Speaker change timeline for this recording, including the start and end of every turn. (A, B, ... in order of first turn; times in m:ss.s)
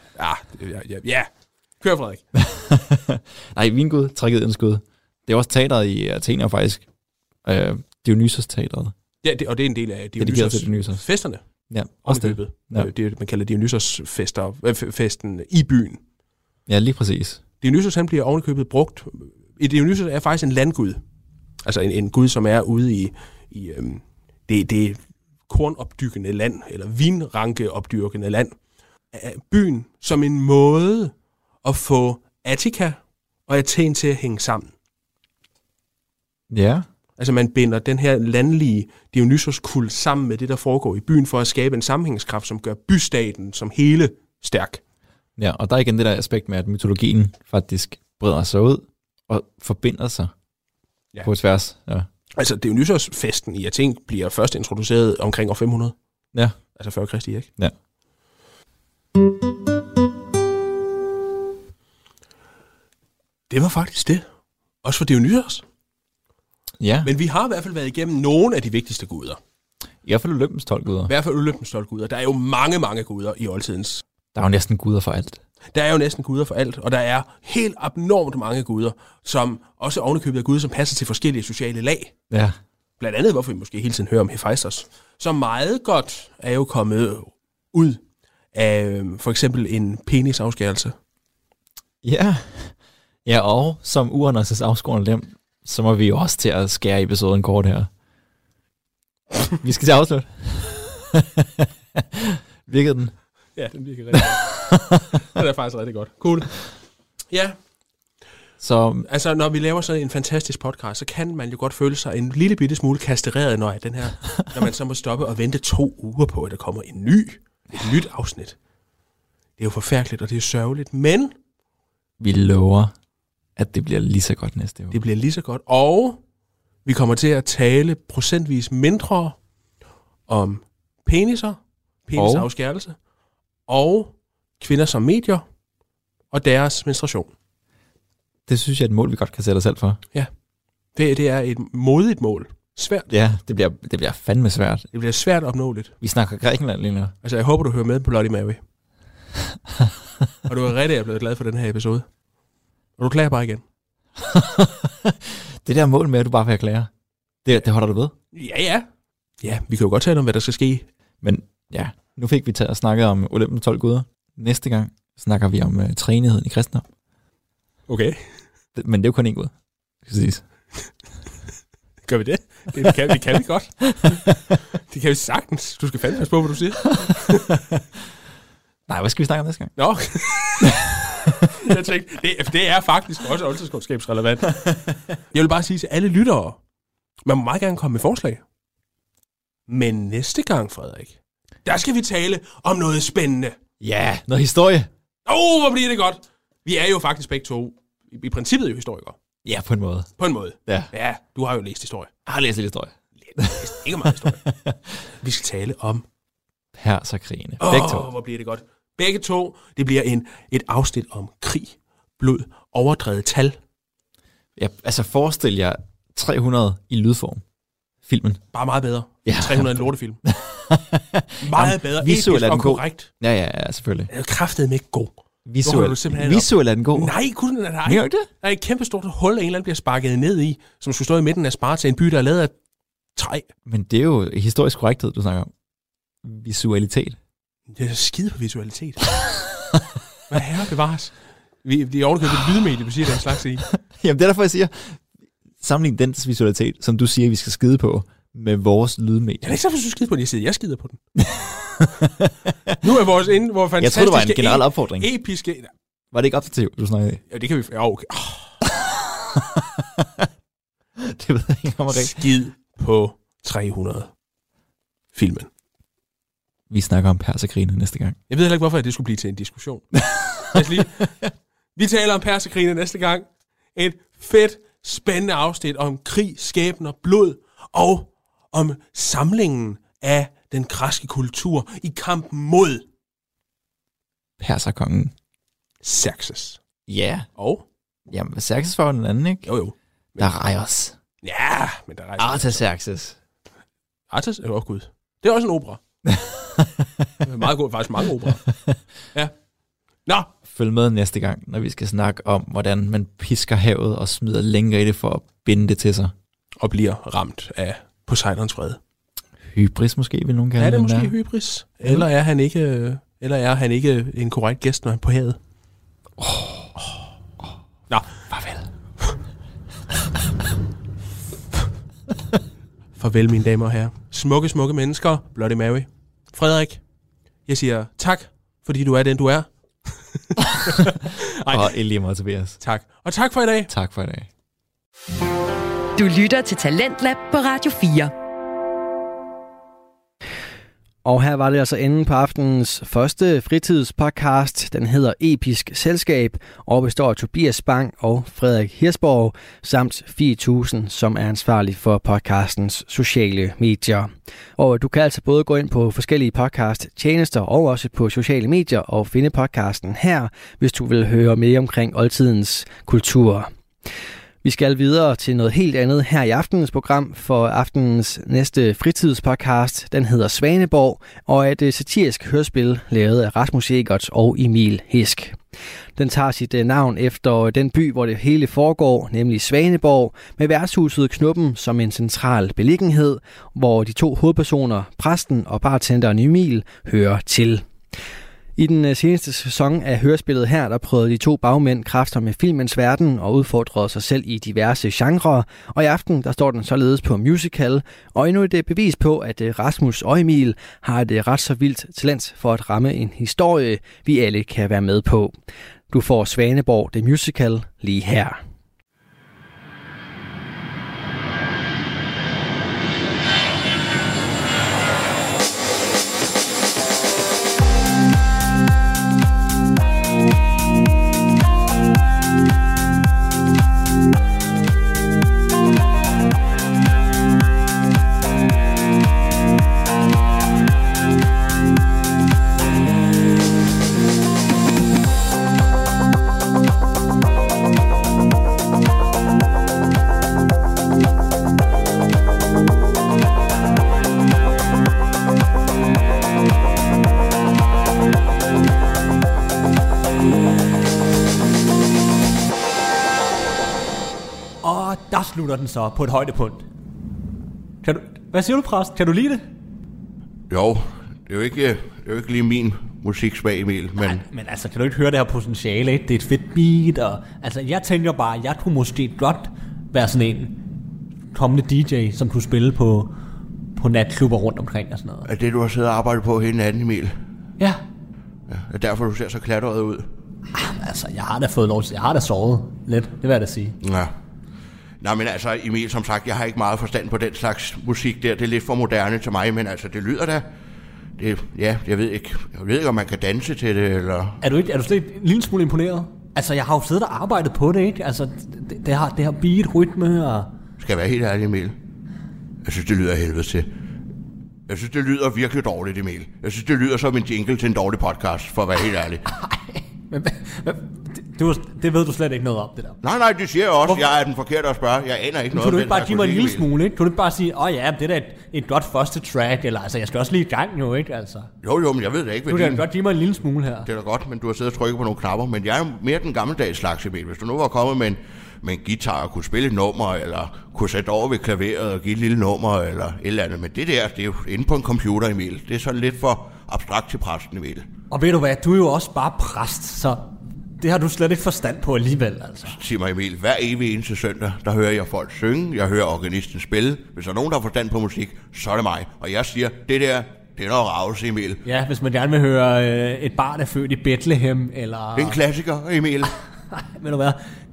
0:00.2-0:02.2 A
0:02.4-0:06.9 B
0:07.4-0:08.9 B
0:09.2-0:11.4 A
0:10.2-0:11.0 B
0:11.7-0:12.9 B
0:12.0-0:16.0 A
0:16.7-0:17.4 B
0:17.6-0:21.0 A
0:21.6-0:28.6 A
0:29.1-0:31.1 A
0:31.6-0:34.7 A
0:36.5-0:36.9 B
0:37.2-0:44.8 A
0:45.4-0:50.3 B
0:51.2-0:52.1 B
0:52.4-0:56.0 A
0:56.8-0:57.5 A
1:03.5-1:04.2 A
1:04.8-1:05.6 A
1:06.8-1:07.1 B
1:07.0-1:09.4 A
1:10.0-1:11.1 B
1:11.1-1:14.0 A
1:14.3-1:15.4 B
1:15.7-1:22.1 A
1:22.3-1:22.6 B
1:23.0-1:28.0 A
1:28.5-1:31.0 A
1:32.0-1:32.7 B
1:33.2-1:37.9 B
1:39.6-1:43.2 B
1:43.6-1:46.7 A
1:44.2-1:45.2 B
1:47.3-1:47.6 A
1:48.6-1:49.1 B
1:49.1-1:58.6 A
1:59.6-2:01.3 A
2:02.2-2:02.9 B
2:03.6-2:05.0 B
2:04.9-2:06.2 A
2:06.8-2:09.4 A
2:10.3-2:13.0 A
2:12.2-2:12.5 B
2:13.7-2:15.4 A
2:16.3-2:17.3 A
2:18.5-2:20.0 B
2:21.0-2:23.1 A
2:23.1-2:24.9 B
2:24.9-2:25.9 A
2:26.0-2:27.1 B
2:27.2-2:28.6 A
2:30.5-2:32.1 A
2:33.0-2:33.6 A
2:34.2-2:36.9 B
2:37.4-2:38.1 B
2:38.3-2:38.9 A
2:39.4-2:40.9 A
2:41.2-2:46.9 B
2:47.9-2:48.2 A
2:48.8-2:50.4 B
2:52.1-2:54.4 A
2:54.9-2:57.6 A
2:57.0-2:57.8 B
2:58.9-2:59.7 B
2:59.8-3:04.7 A
3:00.6-3:01.5 B
3:04.6-3:04.9 B
3:05.3-3:06.6 A
3:07.3-3:08.4 A
3:09.7-3:13.6 A
3:13.8-3:14.9 B
3:15.3-3:19.2 A
3:19.4-3:20.1 B
3:20.2-3:22.1 A
3:22.3-3:25.0 B
3:23.2-3:24.4 A
3:25.2-3:26.0 A
3:26.8-3:28.1 B
3:27.6-3:33.6 A
3:34.6-3:37.4 B
3:38.0-3:38.4 B
3:38.5-3:40.2 A
3:39.3-3:44.1 B
3:41.4-3:43.1 A
3:44.1-3:52.5 A
3:45.5-3:47.2 B
3:47.8-3:48.3 B
3:53.2-3:53.5 A
3:53.7-3:55.5 B
3:56.2-3:57.2 B
3:57.7-3:59.2 A
4:00.3-4:03.7 A
4:03.8-4:05.0 B
4:05.6-4:09.6 B
4:09.4-4:11.0 A
4:11.2-4:12.8 B
4:12.8-4:15.7 A
4:13.8-4:15.1 B
4:16.1-4:17.2 B
4:17.3-4:18.6 A
4:18.7-4:20.3 B
4:21.0-4:22.2 B
4:21.9-4:24.1 A
4:25.1-4:25.5 A
4:26.7-4:28.2 B
4:28.3-4:31.1 A
4:30.1-4:30.8 B
4:31.8-4:42.8 A
4:44.4-4:45.1 B
4:45.8-4:46.6 A
4:46.9-4:47.3 B
4:47.4-4:47.6 A
4:48.1-4:49.5 B
4:49.4-4:50.3 A
4:50.2-4:51.0 B
4:51.2-4:52.6 A
4:52.2-4:53.2 B
4:54.1-4:55.8 A
4:56.1-4:57.1 B
4:57.2-4:58.5 A
5:00.5-5:06.1 B
5:06.6-5:08.8 A
5:09.5-5:11.1 B
5:10.6-5:15.4 A
5:16.2-5:16.7 B
5:17.9-5:18.3 A
5:23.0-5:26.8 A
5:27.5-5:31.8 A
5:31.5-5:32.6 B
5:32.6-5:33.7 A
5:33.7-5:34.3 B
5:36.0-5:38.1 C
5:41.0-6:03.5 D
6:04.4-6:15.4 D
6:16.0-6:27.7 D
6:28.6-6:45.4 D
6:45.9-6:48.4 D
7:34.6-7:36.6 E
7:37.8-7:39.4 E
7:40.5-7:44.2 F
7:44.0-7:50.6 E
7:51.3-7:53.1 E
7:53.8-7:55.3 E
7:55.3-7:57.1 F
7:58.5-8:00.1 F
8:00.5-8:03.8 E
8:03.8-8:04.1 F
8:05.0-8:10.4 F
8:11.2-8:14.4 F
8:14.4-8:20.5 E
8:20.8-8:21.8 F
8:22.6-8:23.7 F
8:24.7-8:29.2 F
8:29.3-8:33.0 E
8:33.0-8:36.6 F
8:35.5-8:41.5 E
8:41.6-8:42.8 F
8:42.5-8:43.9 E
8:43.8-8:57.9 F
8:58.1-9:00.2 E
9:00.8-9:02.8 E
9:02.7-9:11.6 F
9:11.6-9:15.4 E
9:15.2-9:16.3 F
9:16.7-9:17.4 E